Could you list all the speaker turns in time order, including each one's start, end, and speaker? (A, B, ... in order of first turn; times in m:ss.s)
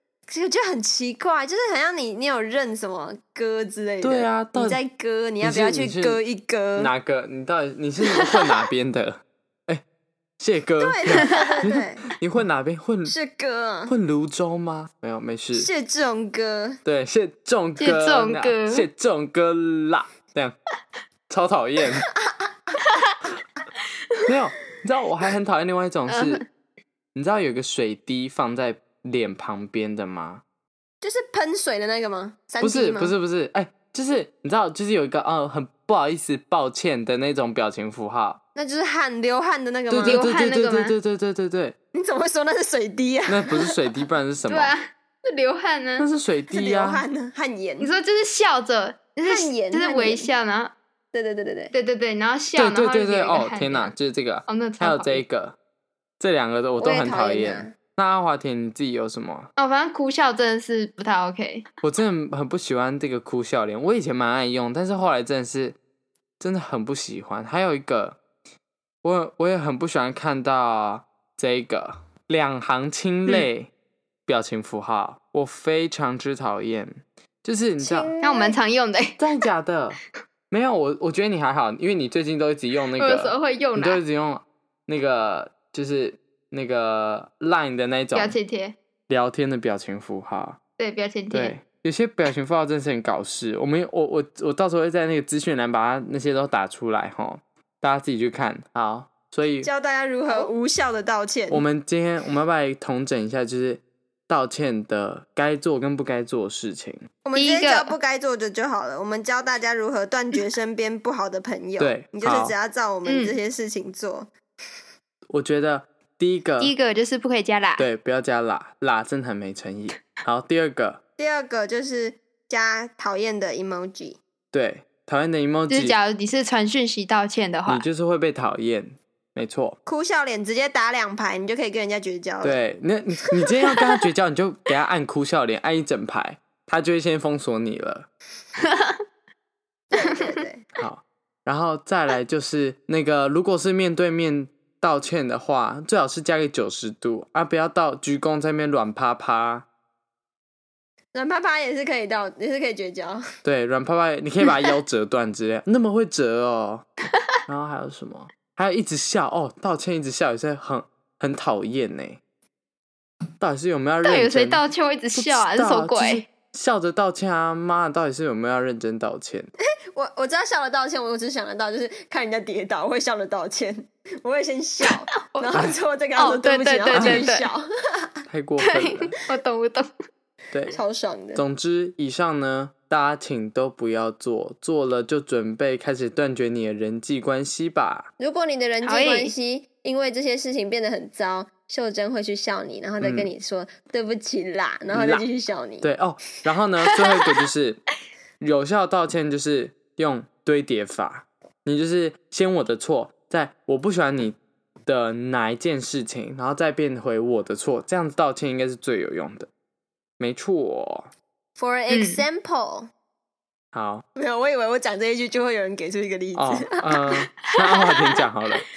0:00.3-0:06.9 A
0:04.0-0:04.8 B
0:05.4-0:06.2 B
0:06.8-0:09.8 B
0:08.1-0:08.5 C
0:10.4-0:13.1 B
0:10.8-0:12.0 A
0:13.0-0:13.9 A
0:13.9-0:15.7 B
0:15.5-0:16.8 A
0:16.8-0:20.5 B
0:17.8-0:18.8 C
0:21.3-0:22.1 B
0:22.3-0:22.8 A
0:22.9-0:23.1 C
0:24.3-0:26.4 B
0:26.1-0:26.4 C
0:27.1-0:30.4 B
0:31.0-0:33.1 A
0:32.6-0:38.4 B
0:38.5-0:40.3 A
0:39.9-0:41.8 B
0:40.0-0:40.9 C
0:41.9-0:43.8 A
0:43.3-0:44.7 B
0:44.5-0:46.1 C
0:46.0-0:47.0 B
0:46.5-0:47.9 A
0:47.8-0:50.7 C
0:49.2-0:50.3 A
0:51.1-0:51.7 A
0:51.7-0:53.9 C
0:52.5-0:55.6 B
0:54.5-0:55.2 C
0:56.2-0:59.5 B
0:56.8-0:57.8 A
0:59.6-1:01.6 C
1:01.8-1:05.8 B
1:06.4-1:08.2 B
1:09.0-1:13.7 B
1:14.3-1:18.1 B
1:17.8-1:18.6 A
1:18.2-1:19.3 C
1:19.2-1:20.0 B
1:20.5-1:28.4 B
1:23.0-1:24.0 C
1:28.1-1:28.7 C
1:29.1-1:30.6 B
1:30.8-1:31.5 C
1:31.3-1:39.7 B
1:39.6-1:41.6 A
1:41.5-1:47.0 B
1:47.2-1:54.3 A
1:47.3-1:47.9 C
1:51.8-1:52.5 B
1:53.0-1:53.4 C
1:55.3-1:56.7 B
1:56.6-1:57.9 C
1:57.8-2:01.0 B
2:01.2-2:04.2 A
2:04.5-2:06.0 B
2:05.7-2:07.8 C
2:07.6-2:09.8 B
2:09.8-2:12.6 A
2:12.4-2:18.1 B
2:18.6-2:19.0 C
2:19.9-2:20.6 A
2:20.0-2:20.4 C
2:20.8-2:29.6 B
2:31.1-2:33.2 A
2:33.4-2:36.8 B
2:37.4-2:42.2 B
2:43.4-2:49.5 B
2:44.0-2:46.2 C
2:49.9-2:58.2 A
2:54.8-2:55.6 C
2:56.2-2:57.5 C
2:56.9-2:57.2 B
2:58.3-2:59.1 B
2:58.6-2:59.9 C
3:00.5-3:00.8 B
3:00.7-3:01.4 A
3:01.3-3:08.1 B
3:08.2-3:15.9 A
3:08.8-3:09.3 C
3:13.0-3:13.3 B
3:14.9-3:15.2 B
3:15.8-3:17.8 B
3:18.4-3:29.5 B
3:30.2-3:31.1 B
3:31.6-3:32.9 A
3:31.9-3:32.2 C
3:33.7-3:34.0 B
3:34.2-3:37.1 A
3:36.4-3:38.6 B
3:37.5-3:38.2 C